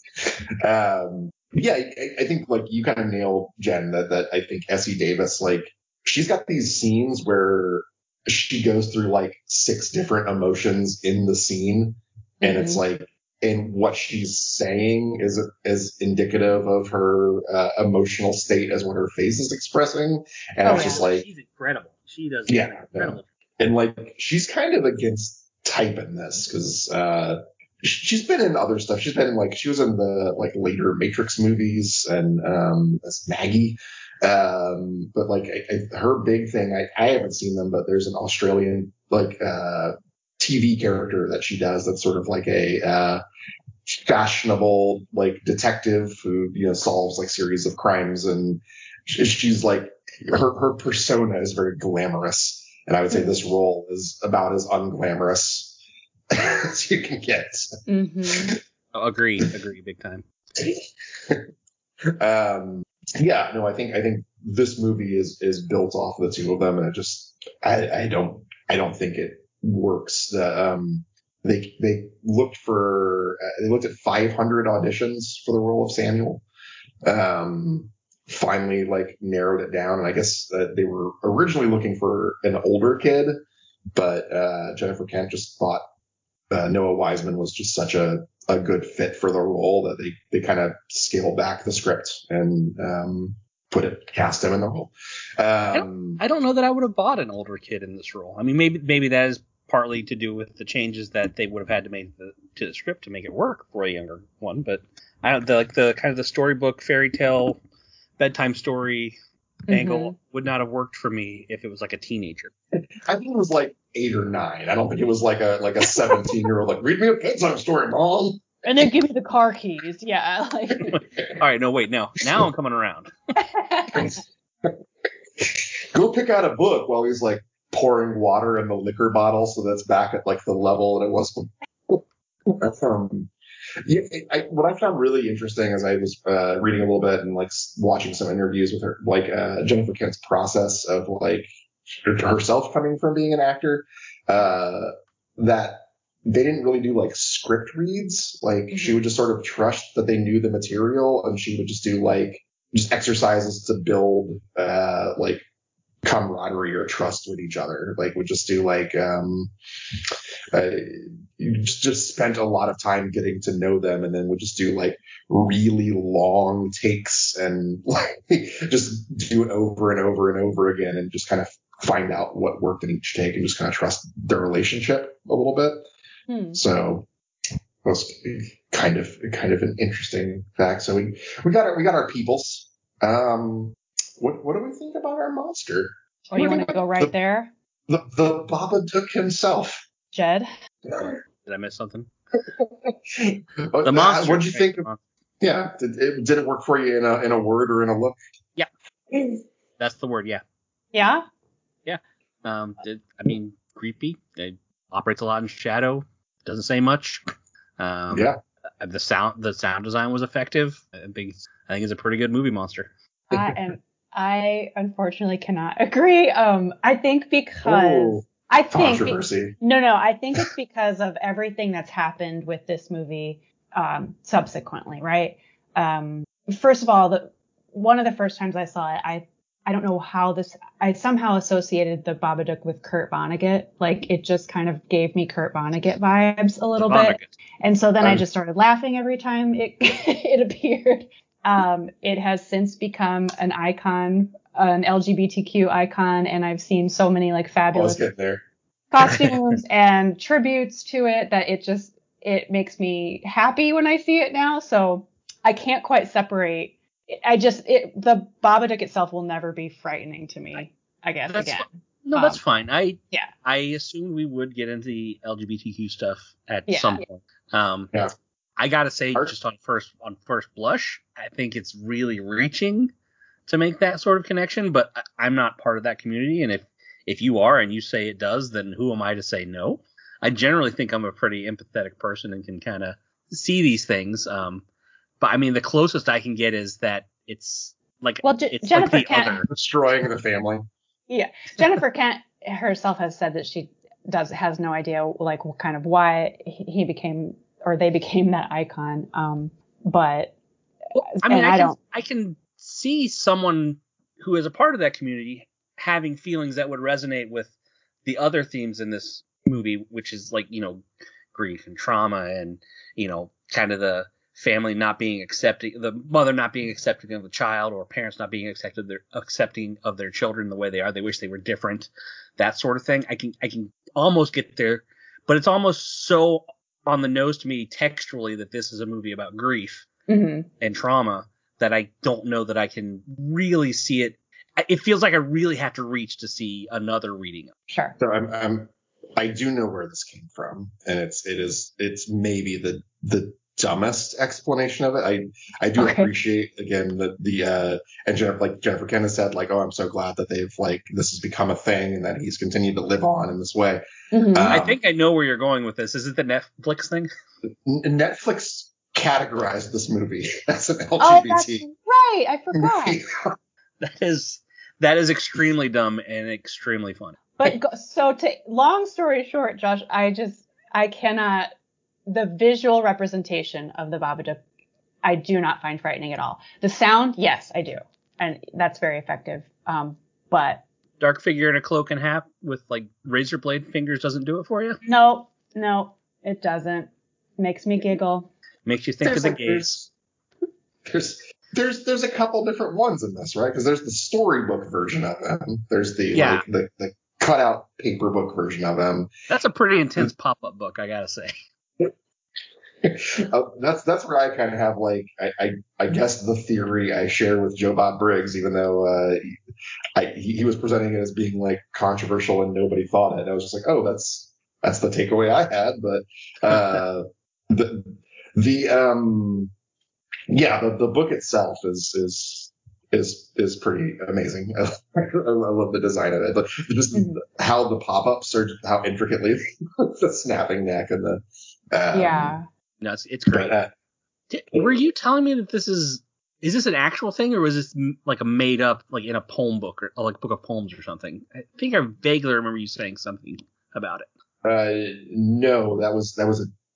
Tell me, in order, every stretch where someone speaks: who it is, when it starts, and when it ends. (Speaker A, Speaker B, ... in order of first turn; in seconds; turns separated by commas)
Speaker A: 0.2-21.3, Speaker B: 12.4-12.8, Speaker B: 20.6-21.0, Speaker C: 20.7-23.3, Speaker A: 22.5-43.2, Speaker A: 43.9-55.8, Speaker B: 53.1-53.4, Speaker A: 56.3-58.6, Speaker B: 57.9-58.6, Speaker C: 58.9-60.2, Speaker A: 60.6-61.5, Speaker A: 62.2-76.4, Speaker A: 77.0-83.3, Speaker A: 83.9-85.8, Speaker A: 86.5-96.2, Speaker C: 95.7-107.6, Speaker C: 108.2-109.2, Speaker B: 109.7-110.2, Speaker C: 109.7-112.5, Speaker A: 113.1-118.9, Speaker B: 118.7-121.0, Speaker C: 120.8-123.1, Speaker B: 123.4-124.2, Speaker A: 123.9-124.8, Speaker A: 125.4-133.3, Speaker A: 133.8-141.5, Speaker A: 142.1-155.4, Speaker B: 148.7-149.0, Speaker A: 156.0-175.9, Speaker B: 176.3-176.6, Speaker A: 176.5-177.1, Speaker A: 177.8-187.1, Speaker B: 186.3-187.5, Speaker A: 187.9-189.8, Speaker B: 190.1-190.5, Speaker A: 190.9-191.2, Speaker C: 191.5-192.1, Speaker A: 192.4-194.9, Speaker C: 193.8-195.0, Speaker A: 195.4-198.2, Speaker A: 199.1-199.4, Speaker C: 199.8-200.4, Speaker B: 200.9-201.3, Speaker C: 201.9-207.2, Speaker C: 207.8-212.9, Speaker A: 208.1-208.4, Speaker B: 213.3-248.1, Speaker A: 213.3-213.6, Speaker A: 217.7-219.6, Speaker C: 236.8-237.3, Speaker A: 247.7-248.4, Speaker B: 248.9-262.4, Speaker C: 261.3-267.9, Speaker B: 266.7-267.0, Speaker C: 268.6-272.9, Speaker C: 273.5-284.6, Speaker C: 285.2-289.4, Speaker B: 288.2-289.4, Speaker A: 289.4-290.7, Speaker B: 291.1-300.4, Speaker C: 300.9-307.5, Speaker B: 301.2-301.8, Speaker C: 308.1-329.9, Speaker B: 330.1-330.5, Speaker C: 330.6-337.5, Speaker A: 338.0-354.8, Speaker B: 345.8-346.1, Speaker B: 354.1-354.6, Speaker C: 354.5-357.1, Speaker A: 357.6-361.6, Speaker B: 361.0-363.0, Speaker A: 362.6-363.4, Speaker C: 363.8-367.4, Speaker B: 367.4-371.5, Speaker B: 372.1-374.4, Speaker B: 375.0-380.6, Speaker C: 381.0-384.8, Speaker B: 384.9-388.3, Speaker C: 388.6-389.8, Speaker A: 389.0-389.9, Speaker A: 390.9-399.1, Speaker C: 396.1-396.4, Speaker C: 399.3-401.3, Speaker A: 402.8-409.4, Speaker A: 409.9-419.5, Speaker A: 420.3-432.4, Speaker B: 426.9-427.2, Speaker B: 431.9-432.5, Speaker C: 432.8-433.6, Speaker A: 433.3-433.7, Speaker C: 434.3-444.1, Speaker A: 444.4-446.5